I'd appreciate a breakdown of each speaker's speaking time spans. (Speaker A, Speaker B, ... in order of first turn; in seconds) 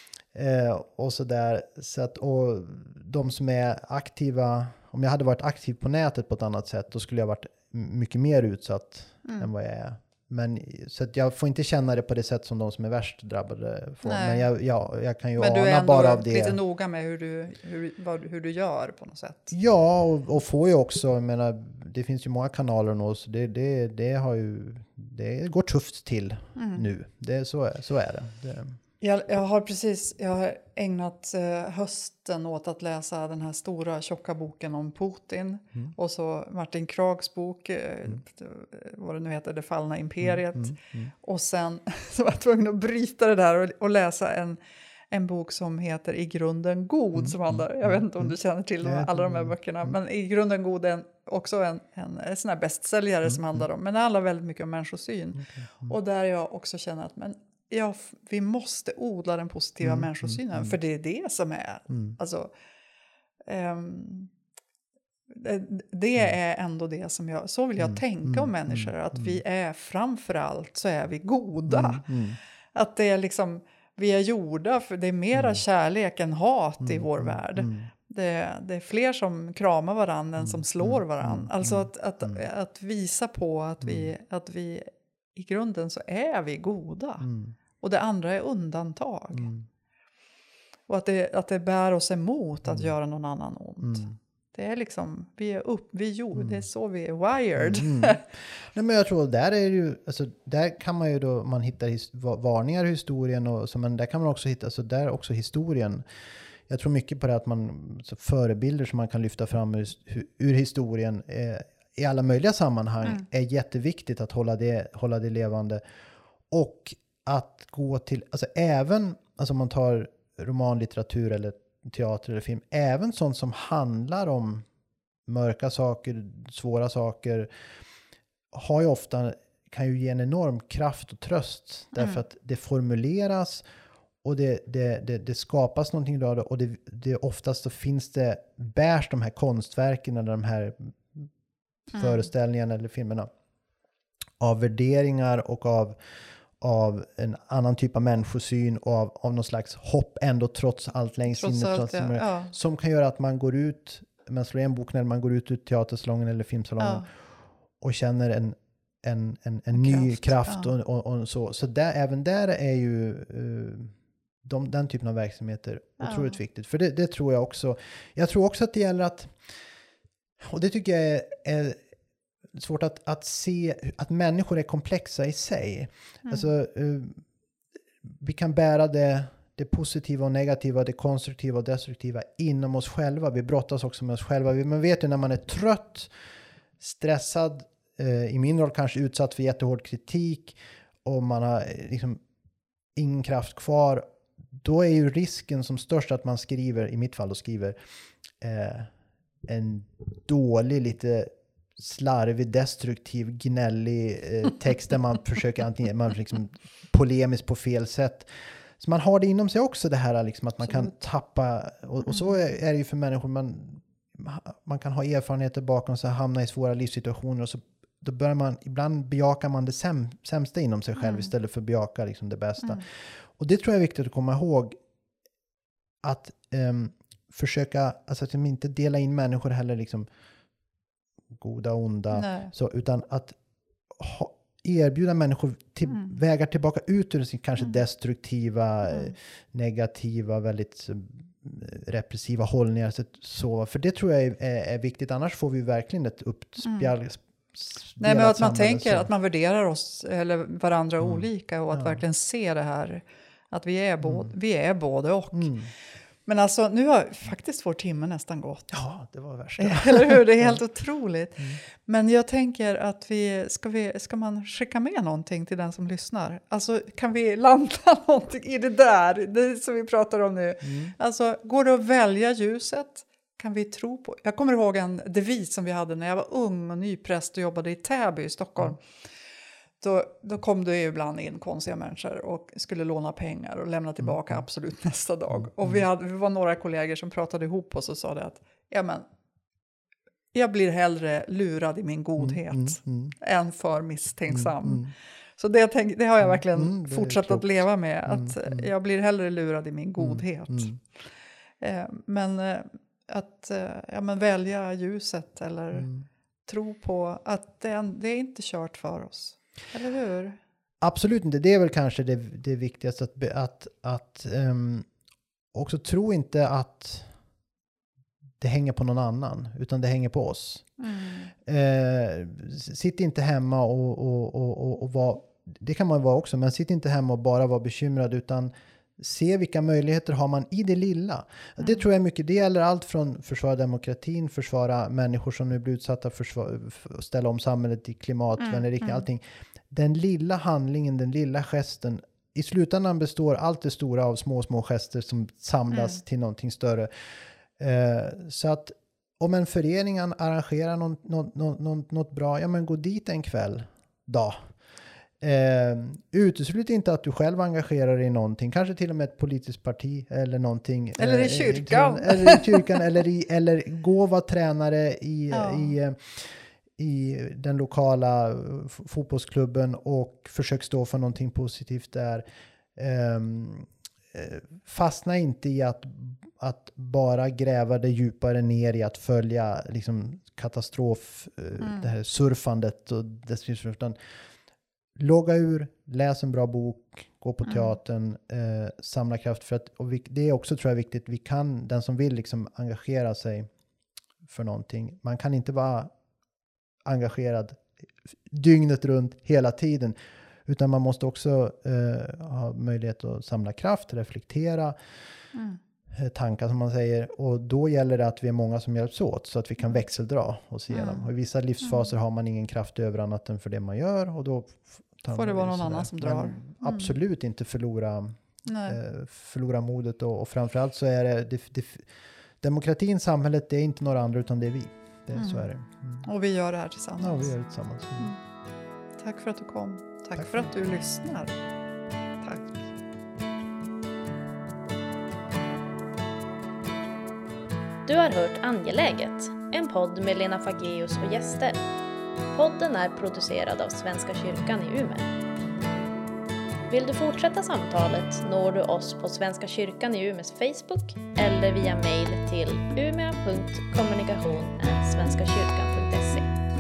Speaker A: 0.3-16.6, 19.5-28.8, 40.2-41.1, 47.2-49.9, 53.3-53.6, 55.4-55.9, 59.8-60.8, 61.9-62.2, 67.8-69.4, 71.7-72.4, 75.3-75.6, 76.8-77.9, 80.4-82.4, 83.8-84.1, 87.2-87.6, 89.3-89.7, 93.8-94.1, 96.3-96.6, 97.6-106.0, 106.7-115.8, 116.5-124.7, 125.3-127.5, 128.5-133.6, 134.2-141.3, 141.9-143.3, 144.4-145.9, 146.6-157.1, 157.8-169.4, 170.4-171.8, 172.5-177.2, 178.1-186.1, 186.8-192.2, 192.9-194.1, 194.6-197.8, 198.4-198.9, 199.4-208.3, 208.8-224.8, 226.0-230.1, 231.4-233.4, 233.9-249.1, 251.0-252.0, 254.0-254.3, 255.3-255.7, 258.7-260.6, 270.6-270.9, 284.0-284.4, 285.4-285.8, 292.2-293.1, 294.3-294.9, 296.2-298.7, 300.0-300.8, 305.7-306.1, 310.8-314.9, 315.5-317.1, 318.4-320.7, 321.4-346.9, 347.6-354.4, 355.2-383.9, 385.0-393.5, 394.3-395.9, 396.9-397.6, 398.3-404.8, 405.9-421.9, 422.4-426.1, 427.0-428.1
Speaker B: 14.0-14.4, 15.4-19.5, 26.6-26.9, 29.0-44.6, 45.1-62.5, 63.4-64.3, 65.3-72.1, 72.7-87.3, 87.8-89.5, 90.9-98.2, 131.9-132.2, 141.9-142.3, 151.4-152.5, 156.8-157.1, 159.7-160.7, 166.0-166.4, 176.3-176.5, 221.0-221.3, 232.1-232.5, 235.9-236.1, 246.6-246.9, 248.0-255.5, 256.3-258.8, 259.6-278.9, 279.8-289.1, 290.3-301.1, 301.6-305.9, 306.4-310.4, 320.8-321.3, 338.4-339.1, 345.7-346.0, 361.0-362.8, 365.3-365.8, 381.6-381.9, 387.4-387.8, 405.3-405.6, 410.7-411.1, 411.6-411.9, 415.1-416.9, 418.4-418.8, 425.1-425.5, 426.0-427.3, 429.0-431.3, 432.2-432.7
Speaker C: 437.9-441.6, 442.3-445.1, 446.7-456.3